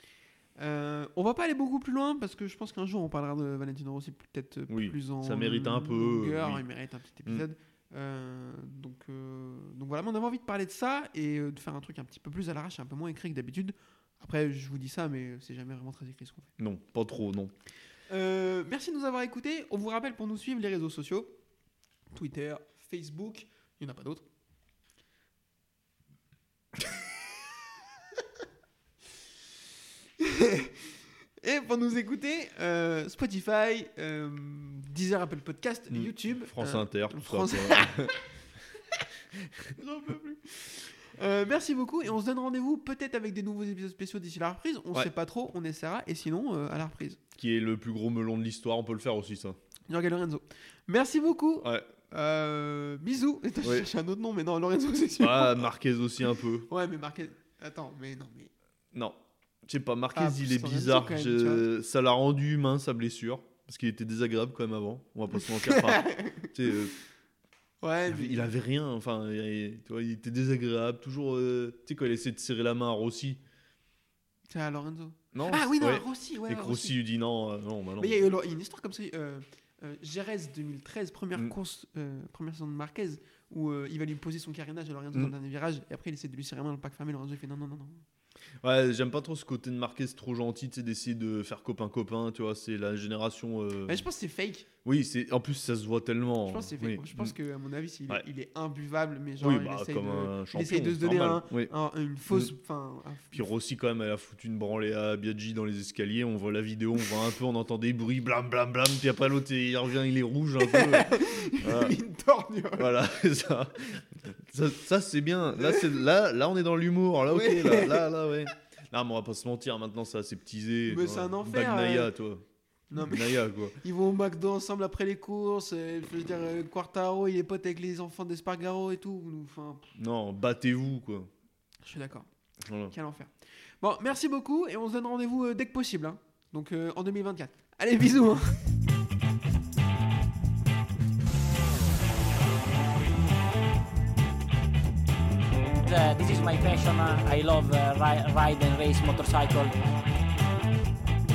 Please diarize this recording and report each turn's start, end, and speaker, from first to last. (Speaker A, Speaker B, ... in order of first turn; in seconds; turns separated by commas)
Speaker A: 0.6-16.5, Speaker B: 4.7-6.6, Speaker B: 16.6-17.5, Speaker A: 18.1-21.4, Speaker A: 22.1-24.3, Speaker A: 30.2-30.8, Speaker A: 31.4-38.1, Speaker B: 35.9-38.2, Speaker A: 39.7-47.2, Speaker B: 47.4-49.6, Speaker A: 49.9-55.7, Speaker B: 51.6-51.9, Speaker B: 55.2-56.7, Speaker A: 56.7-58.5, Speaker B: 58.9-67.0, Speaker A: 60.1-61.6, Speaker A: 65.3-66.8, Speaker A: 67.8-68.5, Speaker B: 68.1-73.4, Speaker A: 74.5-77.0, Speaker B: 75.3-78.3, Speaker A: 78.0-88.0, Speaker B: 88.6-94.0, Speaker A: 93.9-94.7, Speaker B: 94.8-97.4, Speaker A: 96.5-103.5, Speaker B: 99.4-101.7, Speaker B: 103.3-112.0, Speaker A: 110.6-113.0, Speaker B: 112.8-123.8, Speaker A: 117.3-118.1, Speaker A: 120.9-122.1, Speaker A: 122.9-129.9, Speaker B: 129.9-131.3, Speaker A: 131.8-132.3, Speaker B: 132.7-132.9, Speaker A: 132.9-138.8, Speaker C: 145.8-149.8